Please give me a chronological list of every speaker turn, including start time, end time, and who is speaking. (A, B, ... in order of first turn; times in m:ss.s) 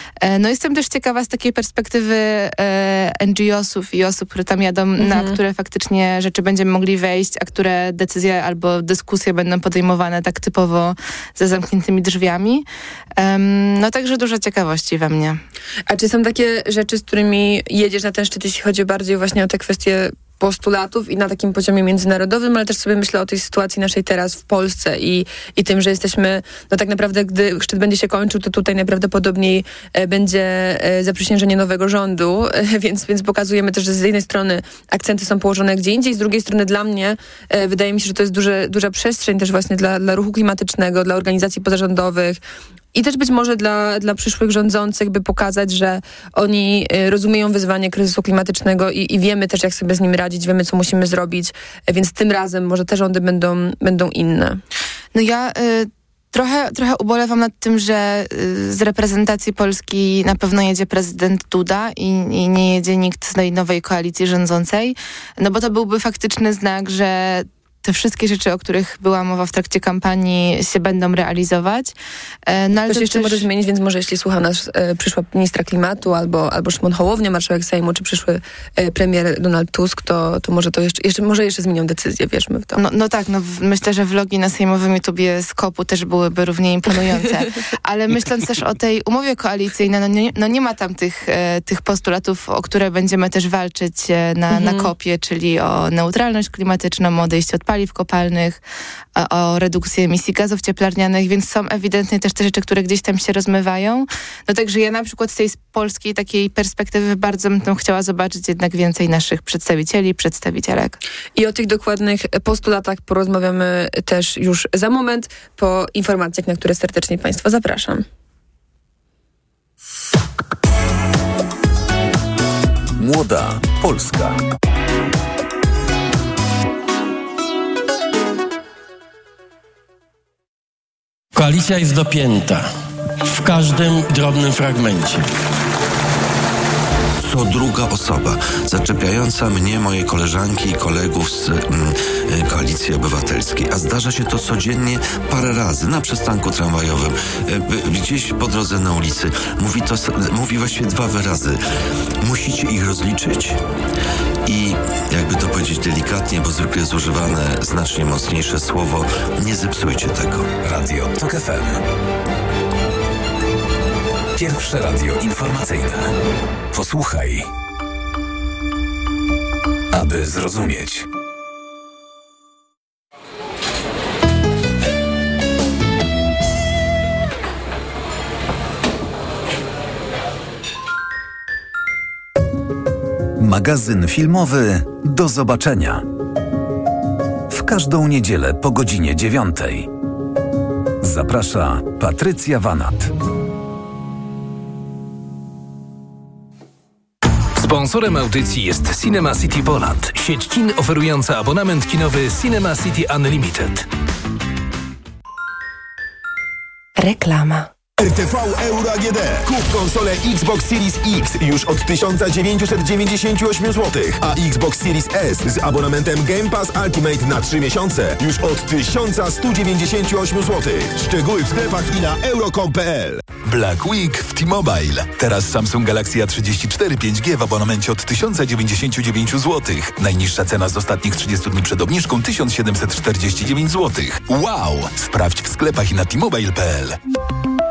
0:00.2-0:12.7 A
0:05.0-0:05.4 B
0:13.2-0:15.4 A
0:15.9-0:42.4 B
0:42.9-0:54.6 B
0:55.1-1:12.0 A
1:12.5-1:13.5 A
1:12.9-1:22.8 B
1:22.8-1:38.6 A
1:39.2-1:51.0 A
1:51.4-1:58.0 B
2:03.0-2:04.4 C
2:11.4-2:12.7 D
2:13.3-2:15.2 D
2:17.2-2:31.6 E
2:32.2-2:33.6 E
2:34.5-2:40.5 E
2:40.6-2:41.8 C
2:44.4-2:46.1 C
2:46.7-2:47.5 C
2:49.9-2:51.1 C
3:03.4-3:06.0 C
3:07.5-3:09.9 C
3:11.0-3:13.1 C
3:17.6-3:23.9 F
3:28.0-3:43.3 G
3:43.4-3:57.0 H